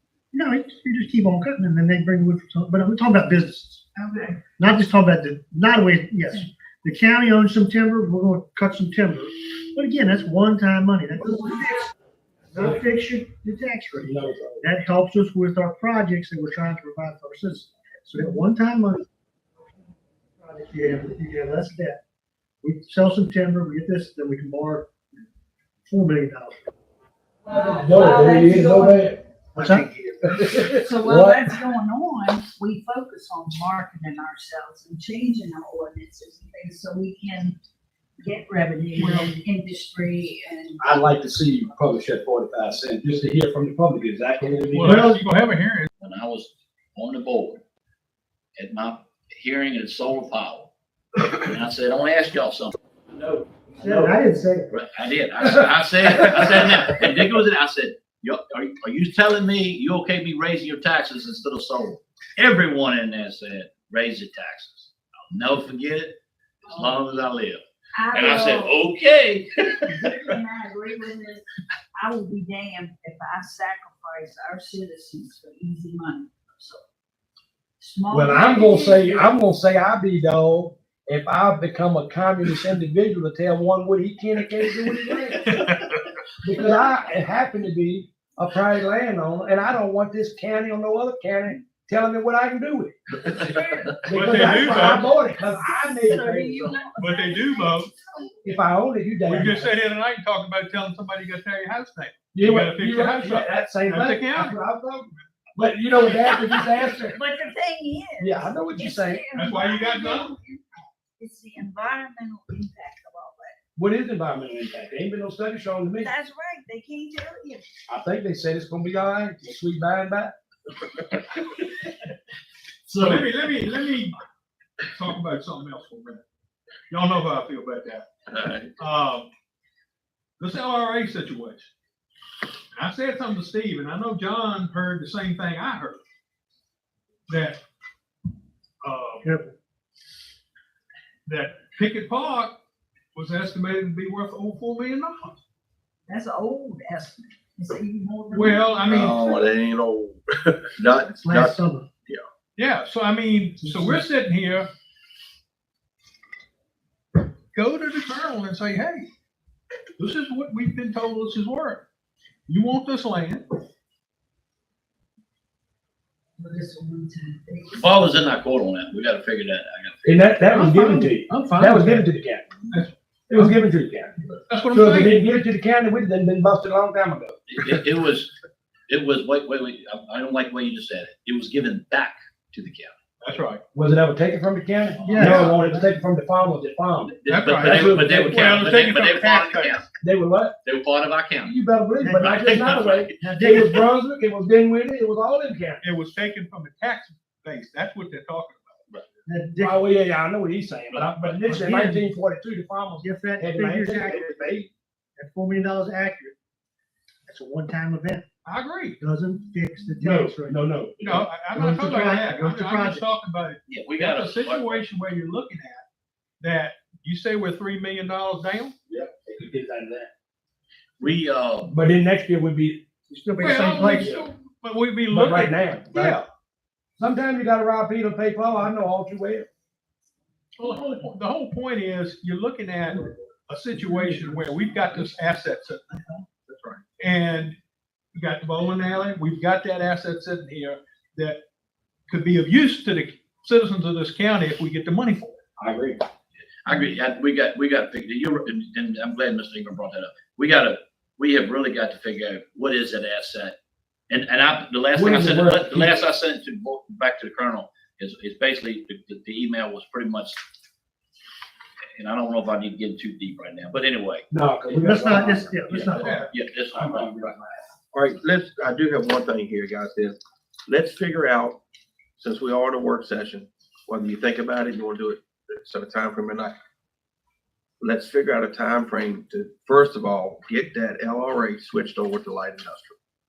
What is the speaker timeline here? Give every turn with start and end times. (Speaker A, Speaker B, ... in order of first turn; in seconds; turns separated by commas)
Speaker A: 0.3-3.9, Speaker B: 3.9-4.4, Speaker A: 4.6-11.9, Speaker A: 12.5-19.1, Speaker C: 14.0-14.7, Speaker A: 20.4-22.0, Speaker A: 22.6-24.9, Speaker A: 25.9-26.7, Speaker B: 27.4-29.1, Speaker C: 27.5-29.2, Speaker A: 29.5-30.1, Speaker C: 30.2-31.5, Speaker B: 30.6-37.6, Speaker B: 38.2-40.8, Speaker D: 39.0-39.4, Speaker C: 40.8-45.1, Speaker D: 44.7-45.9, Speaker A: 44.8-45.2, Speaker E: 46.0-47.6, Speaker E: 48.5-50.7, Speaker E: 51.3-53.6, Speaker A: 53.8-54.7, Speaker C: 53.8-54.1, Speaker E: 54.7-69.9, Speaker B: 68.0-68.8, Speaker B: 69.9-76.8, Speaker B: 77.8-79.3, Speaker C: 78.1-85.7, Speaker D: 85.5-86.0, Speaker C: 86.4-96.8, Speaker D: 94.1-95.1, Speaker B: 95.6-98.4, Speaker D: 97.0-97.9, Speaker C: 98.4-99.7, Speaker D: 99.3-104.5, Speaker C: 102.3-107.2, Speaker B: 107.1-110.7, Speaker C: 108.2-109.2, Speaker D: 109.3-110.3, Speaker B: 111.2-113.5, Speaker C: 113.8-116.1, Speaker B: 116.0-117.7, Speaker C: 117.9-120.3, Speaker E: 122.9-123.3, Speaker D: 123.0-124.1, Speaker D: 124.9-126.2, Speaker D: 126.9-128.1, Speaker F: 128.3-128.7, Speaker D: 128.8-129.3, Speaker D: 130.4-131.7, Speaker D: 132.8-136.0, Speaker D: 137.3-137.6, Speaker D: 138.8-139.3, Speaker A: 139.2-139.5, Speaker D: 141.3-142.6, Speaker D: 143.1-145.4, Speaker B: 146.1-149.3, Speaker D: 148.3-149.2, Speaker F: 148.8-152.2, Speaker A: 151.2-151.9, Speaker D: 152.6-154.7, Speaker D: 157.5-159.1, Speaker D: 160.0-161.8, Speaker D: 162.5-163.4, Speaker B: 166.4-168.1, Speaker E: 167.8-170.3, Speaker C: 170.0-172.5, Speaker D: 170.5-172.1, Speaker D: 172.7-173.5, Speaker C: 173.3-177.4, Speaker D: 174.5-175.2, Speaker E: 177.5-178.3, Speaker E: 178.9-182.9, Speaker D: 183.2-183.6, Speaker C: 183.7-188.2, Speaker E: 185.0-185.6, Speaker A: 185.0-185.9, Speaker E: 187.1-189.9, Speaker D: 187.3-189.8, Speaker C: 190.0-190.6, Speaker E: 190.6-191.6, Speaker C: 191.4-195.8, Speaker A: 192.0-192.4, Speaker E: 192.1-193.5, Speaker A: 193.2-193.8, Speaker D: 195.8-198.8, Speaker A: 199.2-199.8, Speaker C: 199.6-204.7, Speaker E: 200.9-201.3, Speaker D: 201.5-202.0, Speaker A: 203.0-204.2, Speaker A: 205.2-206.3, Speaker A: 207.2-208.2, Speaker D: 208.4-209.0, Speaker A: 209.0-210.6, Speaker C: 210.0-211.3, Speaker D: 211.0-215.8, Speaker A: 211.5-213.0, Speaker E: 213.7-214.8, Speaker D: 216.4-218.7, Speaker C: 218.9-220.1, Speaker E: 221.0-221.7, Speaker C: 221.7-222.8, Speaker A: 223.1-224.2, Speaker D: 223.4-226.2, Speaker C: 223.8-224.1, Speaker C: 225.1-226.2, Speaker C: 227.0-229.5, Speaker D: 230.6-236.1, Speaker F: 236.5-236.8, Speaker D: 237.0-237.6, Speaker D: 238.1-241.4, Speaker D: 242.1-245.4, Speaker C: 245.6-246.0, Speaker E: 246.6-253.6, Speaker E: 254.1-260.4, Speaker C: 254.9-256.0, Speaker E: 261.9-264.2, Speaker C: 264.3-267.6, Speaker A: 264.7-266.3, Speaker D: 265.9-266.3, Speaker E: 266.3-267.1, Speaker F: 267.9-271.6, Speaker F: 272.2-276.6, Speaker F: 277.8-283.0